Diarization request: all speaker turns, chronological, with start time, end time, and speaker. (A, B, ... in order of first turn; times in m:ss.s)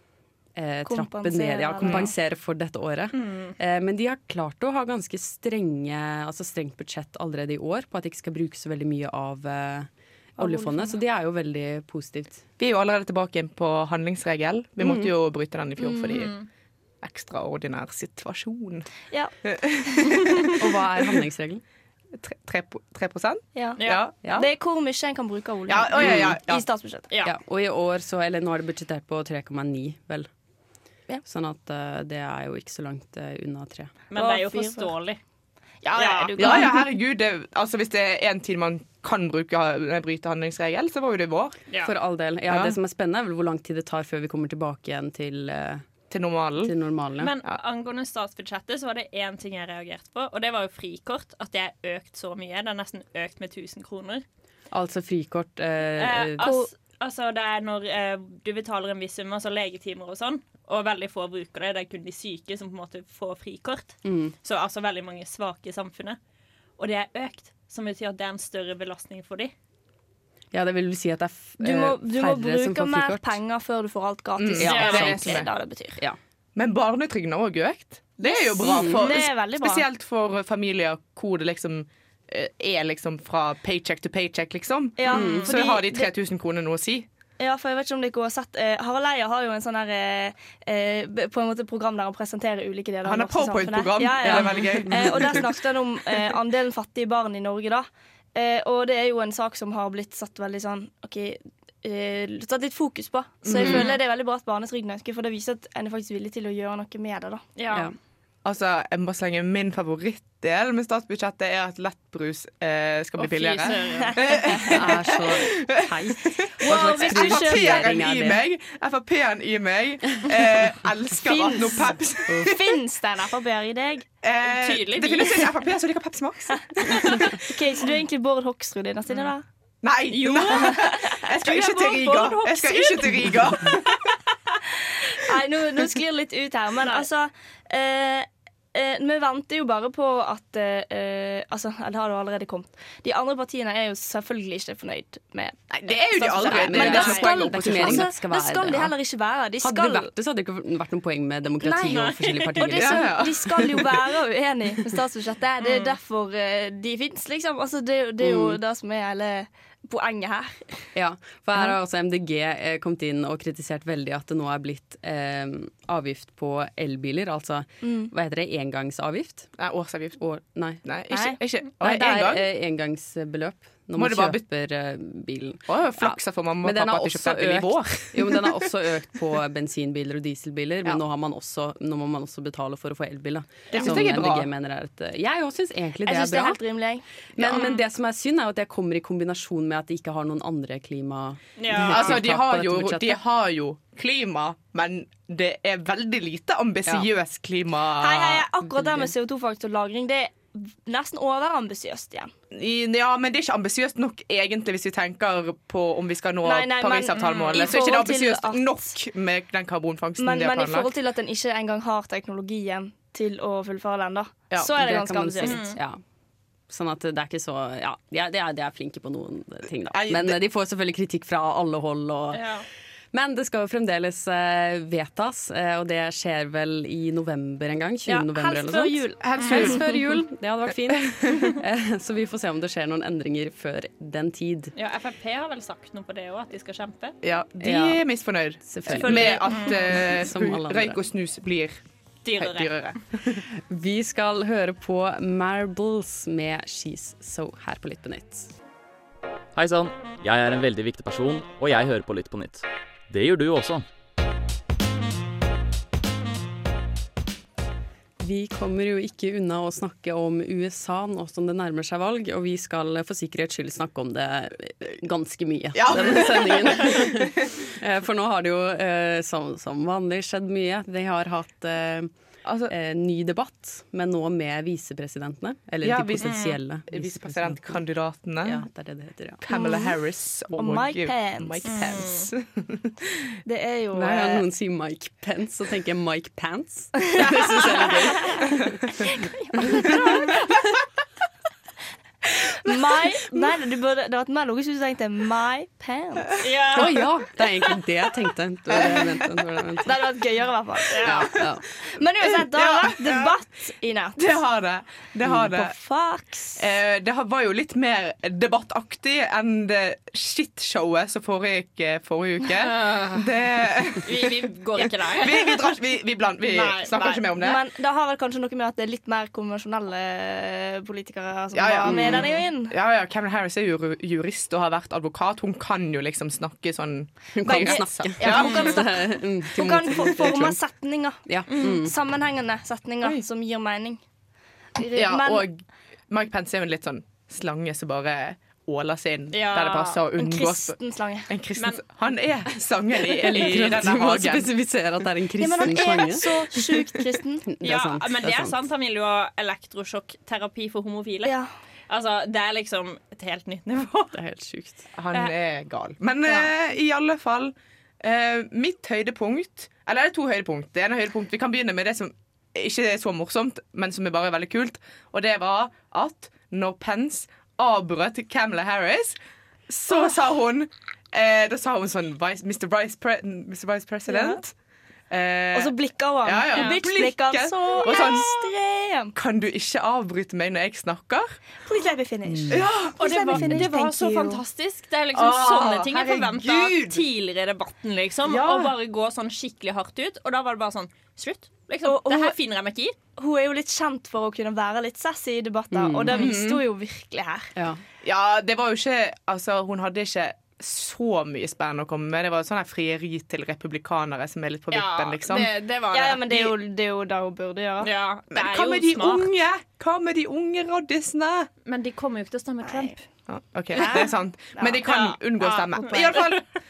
0:00.6-0:12.4 A
0:00.8-0:02.1 B
0:03.1-0:03.5 C
0:10.4-0:11.0 B
0:12.6-0:16.4 D
0:14.8-0:15.1 A
0:15.8-0:16.1 B
0:17.0-0:18.9 D
0:19.4-0:20.5 D
0:20.6-0:21.6 A
0:22.1-0:24.1 D
0:23.5-0:27.1 B
0:25.7-0:26.6 D
0:26.0-0:26.3 A
0:27.1-0:27.4 C
0:27.2-0:30.3 A
0:31.2-0:33.9 A
0:34.1-0:35.2 C
0:34.1-0:34.9 B
0:35.8-0:36.7 B
0:35.9-0:36.6 C
0:36.4-0:41.6 D
0:41.8-0:45.8 A
0:42.5-0:42.8 D
0:46.1-0:46.7 D
0:46.6-0:47.3 A
0:47.2-0:54.2 C
0:54.7-0:56.5 A
0:56.0-1:06.2 C
0:56.4-0:56.7 B
1:04.0-1:04.3 A
1:06.8-1:09.5 C
1:10.5-1:13.4 A
1:11.6-1:16.0 B
1:14.4-1:15.5 D
1:14.6-1:16.2 A
1:14.6-1:15.2 C
1:16.6-1:27.1 D
1:18.2-1:19.8 B
1:18.6-1:19.1 A
1:25.0-1:26.1 B
1:25.1-1:25.6 A
1:27.4-1:47.4 B
1:33.0-1:35.5 D
1:34.2-1:35.5 A
1:43.4-1:43.9 D
1:43.6-1:44.0 C
1:47.6-1:47.9 C
1:48.4-2:02.6 D
1:53.2-1:54.2 C
1:53.3-1:54.9 B
1:54.6-1:58.4 A
1:56.6-1:57.8 B
2:00.3-2:00.6 A
2:01.2-2:01.8 B
2:02.3-2:02.5 A
2:02.4-2:04.1 B
2:04.2-2:07.5 D
2:04.4-2:05.5 C
2:06.8-2:09.4 B
2:09.8-2:14.1 D
2:10.1-2:13.8 C
2:15.1-2:30.1 B
2:25.7-2:28.1 D
2:26.4-2:28.9 A
2:26.6-2:27.3 C
2:29.6-2:33.9 A
2:31.6-2:32.7 C
2:32.6-2:40.8 B
2:32.7-2:33.9 D
2:35.6-2:36.0 C
2:40.9-2:49.6 A
2:47.8-2:48.1 B
2:49.6-2:50.2 D
2:50.2-2:50.8 A
2:50.8-2:52.4 D
2:51.1-2:51.4 B
2:51.8-3:06.6 A
2:54.0-2:54.4 D
2:55.7-2:58.7 D
3:03.7-3:04.0 C
3:03.7-3:04.5 D
3:06.0-3:07.6 B
3:07.3-3:13.2 A
3:07.4-3:07.8 C
3:11.6-3:12.2 C
3:11.8-3:18.4 D
3:18.0-3:22.3 B
3:18.7-3:19.1 A
3:22.5-3:30.9 D
3:26.4-3:28.9 B
3:27.1-3:27.7 C
3:30.2-3:35.7 B
3:34.7-3:36.0 A
3:35.4-3:35.8 C
3:36.7-3:42.4 A
3:39.9-3:40.4 D
3:42.3-3:42.6 C
3:43.1-3:54.7 A
3:48.1-3:49.7 B
3:49.2-3:50.0 D
3:51.1-3:51.5 D
3:54.7-3:57.2 C
3:57.2-4:01.8 D
3:57.6-3:58.0 A
3:58.6-4:01.0 A
3:59.0-3:59.9 C
4:02.2-4:02.8 C
4:02.4-4:03.4 D
4:03.5-4:08.5 A
4:09.5-4:13.8 E
4:18.2-4:32.1 A
4:25.8-4:27.6 D
4:32.4-4:32.7 D
4:32.7-4:37.8 A
4:35.8-4:38.6 D
4:38.4-4:39.4 A
4:39.4-4:43.0 D
4:39.5-4:40.0 B
4:40.5-4:41.8 B
4:41.6-4:42.3 C
4:43.4-4:44.4 B
4:43.9-4:50.0 A
4:47.2-4:48.7 D
4:49.1-4:50.5 B
4:49.6-4:50.3 D
4:52.4-4:56.4 B
4:56.4-4:57.1 C
4:56.7-5:00.0 A
4:58.7-4:59.2 D
4:59.8-5:04.4 B
5:00.9-5:01.3 C
5:01.0-5:01.5 D
5:01.4-5:01.6 A
5:02.3-5:03.3 D
5:04.2-5:05.7 D
5:05.4-5:06.6 B
5:06.6-5:17.6 D
5:12.6-5:13.3 C
5:14.0-5:15.7 C
5:16.4-5:17.2 C
5:17.4-5:22.7 B
5:21.5-5:28.7 D
5:21.8-5:22.2 A
5:27.3-5:30.6 A
5:27.4-5:34.0 B
5:31.2-5:31.9 A
5:31.5-5:31.8 C
5:34.8-5:35.5 B
5:34.9-5:40.7 D
5:39.3-5:40.0 C
5:40.2-5:41.3 B
5:41.3-5:44.5 D
5:41.6-5:41.8 C
5:43.2-5:46.8 A
5:43.2-5:43.8 C
5:45.4-5:47.4 B
5:47.4-5:48.6 A
5:47.6-5:51.3 C
5:51.9-5:54.2 C
5:54.1-5:54.8 A
5:55.0-6:09.2 D
6:09.7-6:14.5 D
6:14.1-6:14.4 B
6:15.1-6:15.7 D
6:15.5-6:19.1 B
6:16.2-6:18.3 D
6:16.5-6:16.8 C
6:17.8-6:18.4 C
6:19.1-6:21.4 D
6:21.6-6:24.4 B
6:22.3-6:22.7 A
6:22.5-6:23.0 D
6:23.0-6:32.9 C
6:25.1-6:27.0 D
6:28.2-6:28.7 D
6:31.8-6:32.4 B
6:33.2-6:37.5 B
6:35.7-6:36.3 A
6:36.1-6:36.6 D
6:37.6-6:37.8 A
6:38.0-6:45.5 D
6:44.7-6:46.4 C
6:45.9-6:47.9 B
6:47.8-6:49.3 C
6:48.3-6:51.5 D
6:51.6-6:53.0 C
6:52.6-6:52.9 B
6:53.3-6:56.4 D
6:53.7-6:54.8 B
6:53.8-6:54.1 C
6:54.8-6:56.4 C